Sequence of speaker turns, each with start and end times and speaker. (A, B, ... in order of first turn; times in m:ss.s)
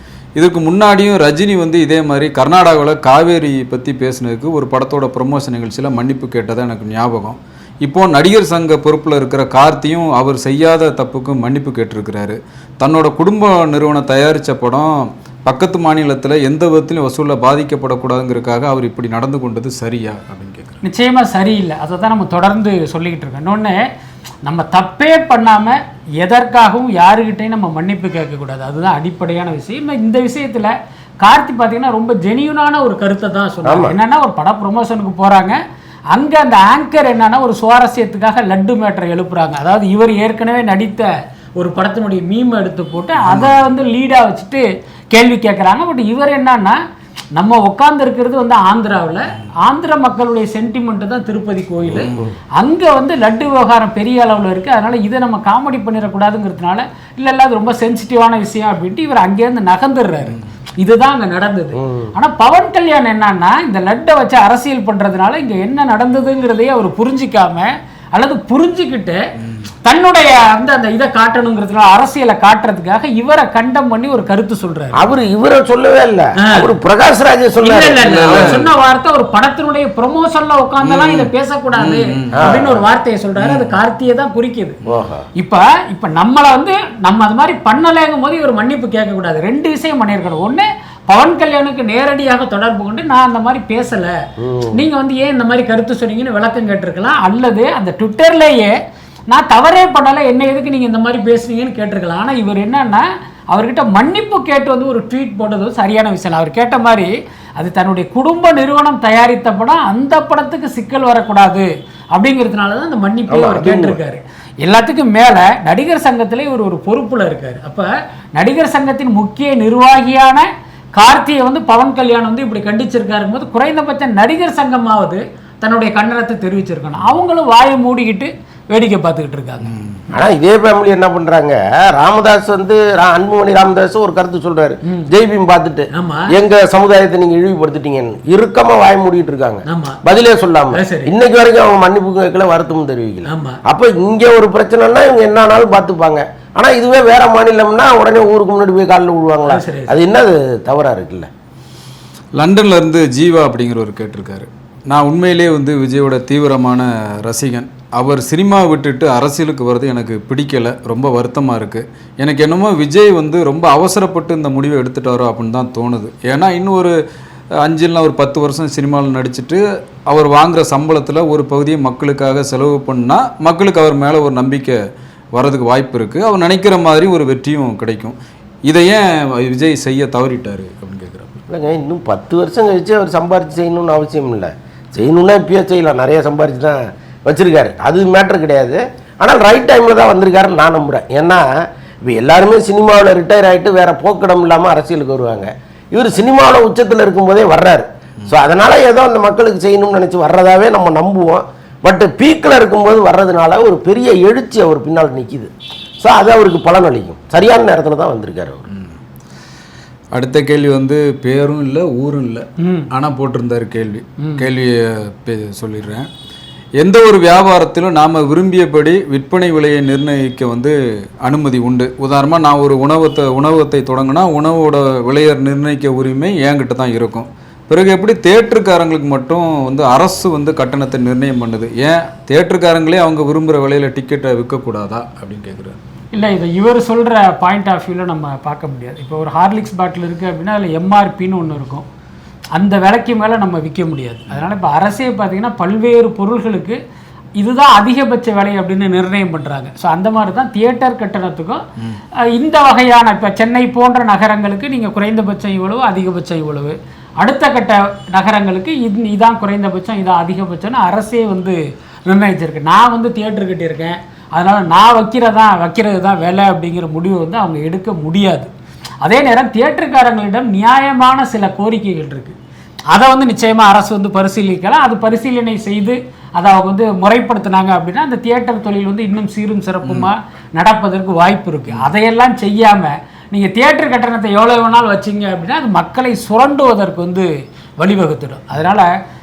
0:00.4-0:20.8 A
0:20.8-0:23.8 B
0:24.4-0:35.6 B
0:33.6-0:34.0 C
0:36.1-0:46.8 B
0:47.3-1:09.2 B
0:51.9-0:52.3 A
0:52.0-0:52.3 C
1:01.8-1:02.1 C
1:09.8-1:15.0 B
1:15.0-1:18.6 C
1:16.4-1:16.7 B
1:17.6-1:24.8 B
1:18.0-1:18.7 A
1:20.8-1:22.5 A
1:22.3-1:22.8 C
1:23.4-1:23.7 A
1:24.9-1:25.3 C
1:25.4-1:34.2 B
1:34.4-1:34.8 C
1:34.7-1:38.7 B
1:39.3-2:00.4 B
1:53.3-1:54.0 C
2:01.0-2:09.7 B
2:10.1-2:31.3 C
2:15.9-2:16.3 B
2:19.7-2:20.0 B
2:20.7-2:21.2 B
2:23.3-2:23.6 B
2:29.5-2:30.0 B
2:32.4-2:47.0 A
2:47.6-2:54.8 A
2:55.3-3:01.4 A
3:01.5-3:11.4 C
3:12.0-3:28.7 C
3:30.1-3:36.1 A
3:32.6-3:32.9 B
3:34.2-3:34.4 B
3:36.8-3:40.7 A
3:41.2-3:55.8 A
3:56.1-4:01.9 B
4:02.6-4:06.8 B
4:07.4-4:11.6 B
4:12.3-4:28.5 B
4:29.0-4:32.4 B
4:32.9-4:48.9 B
4:39.8-4:40.1 A